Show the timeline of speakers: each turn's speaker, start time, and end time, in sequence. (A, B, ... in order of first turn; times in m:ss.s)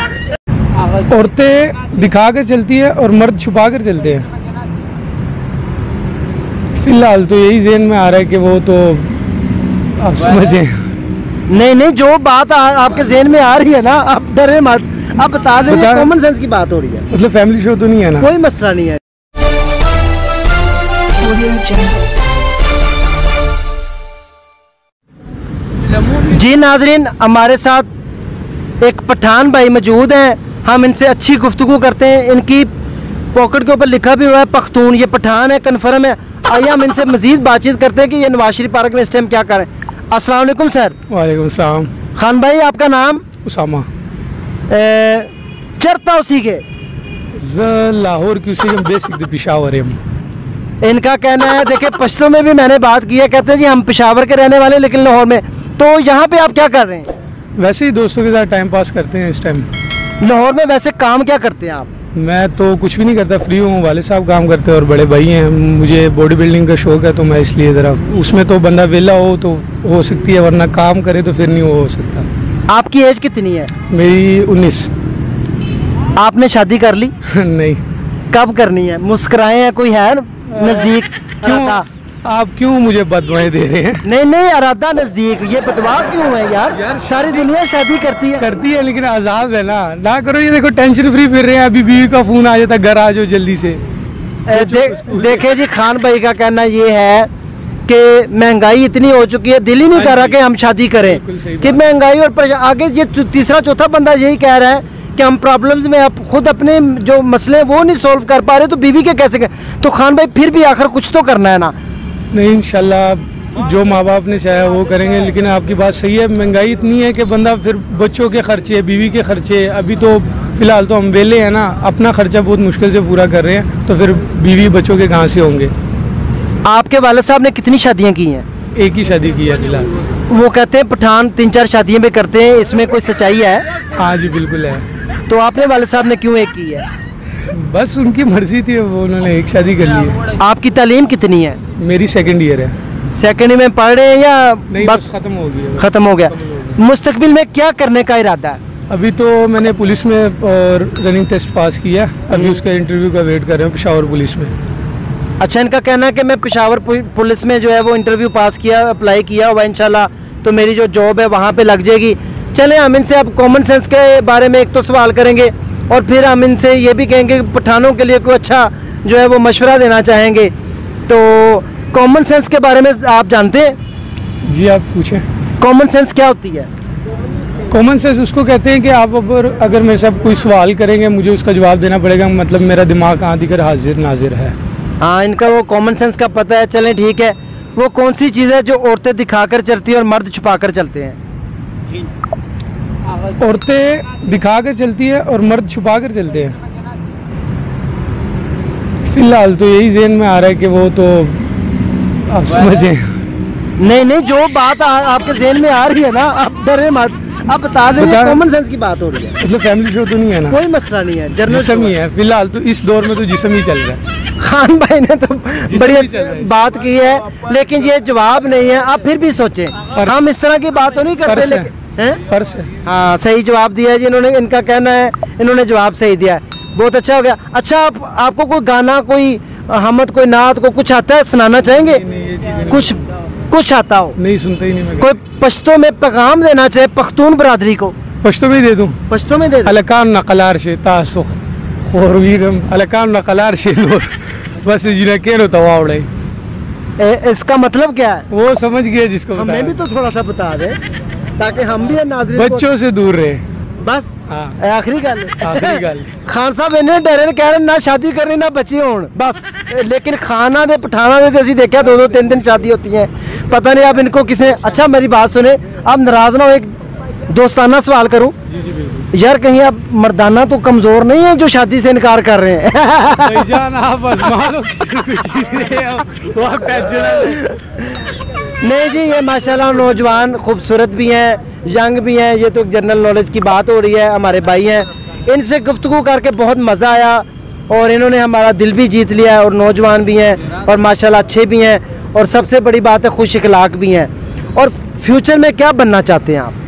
0:01.0-0:04.3 A
0:06.7-0:09.2 A
0:10.0-0:10.8 A
0:11.5-0:17.0 B
0:15.7-0:16.1 A
0:17.1-0:18.3 A
0:18.2-0:19.0 B
0:26.2-0:27.8 B
0:28.8-0:32.7 B
0:33.3-0:41.0 B
0:41.1-0:41.9 A
0:42.2-0:43.2 B
0:43.4-0:43.9 A
0:44.7-0:46.6 B
0:47.4-0:50.0 A
0:50.8-0:57.1 B
0:57.6-0:59.7 A
1:00.2-1:01.9 B
1:02.1-1:12.3 A
1:12.7-1:13.7 B
1:13.9-1:14.9 A
1:16.2-1:17.1 B
1:17.2-1:17.8 A
1:18.3-1:21.8 B
1:20.5-1:24.0 A
1:24.0-1:28.4 B
1:26.8-1:27.1 A
1:28.4-1:33.8 A
1:34.5-1:37.3 B
1:34.5-1:35.4 A
1:37.9-1:51.7 B
1:39.9-1:40.4 A
1:41.0-1:41.8 A
1:52.3-2:05.7 A
2:06.6-2:08.4 B
2:08.8-2:09.9 A
2:10.3-2:13.6 B
2:14.0-2:14.8 A
2:15.3-2:16.8 B
2:17.5-2:20.3 A
2:20.4-2:21.6 B
2:21.8-2:22.7 A
2:23.1-2:25.0 B
2:24.7-2:26.8 A
2:25.8-2:28.6 B
2:28.9-2:34.5 A
2:32.3-2:32.6 B
2:35.4-2:50.5 B
2:51.1-2:53.7 B
2:54.4-2:55.2 A
2:55.6-2:56.7 B
2:57.7-3:04.6 A
3:05.0-3:11.2 B
3:13.3-3:16.6 A
3:19.0-3:21.5 A
3:22.3-3:23.0 A
3:23.8-3:29.4 B
3:28.0-3:28.4 A
3:29.4-3:30.6 A
3:30.5-3:32.0 B
3:31.4-3:34.0 A
3:34.4-3:42.2 B
3:35.7-3:36.6 A
3:41.2-3:41.7 A
3:42.3-3:42.7 A
3:42.8-3:52.0 B
3:51.7-3:53.0 A
3:52.7-3:54.2 B
3:54.2-3:55.1 A
3:55.0-3:58.0 B
3:58.2-3:59.0 A
3:59.1-3:59.7 B
3:59.6-4:06.1 A
4:07.0-4:08.2 B
4:08.3-4:09.8 A
4:09.4-4:10.8 B
4:11.4-4:12.6 B
4:12.3-4:13.4 A
4:13.8-4:26.7 B
4:14.3-4:14.6 A
4:15.4-4:16.1 A
4:27.3-4:28.3 B
4:28.5-4:29.1 A
4:29.1-4:33.5 B
4:33.2-4:37.6 A
4:38.6-4:56.6 B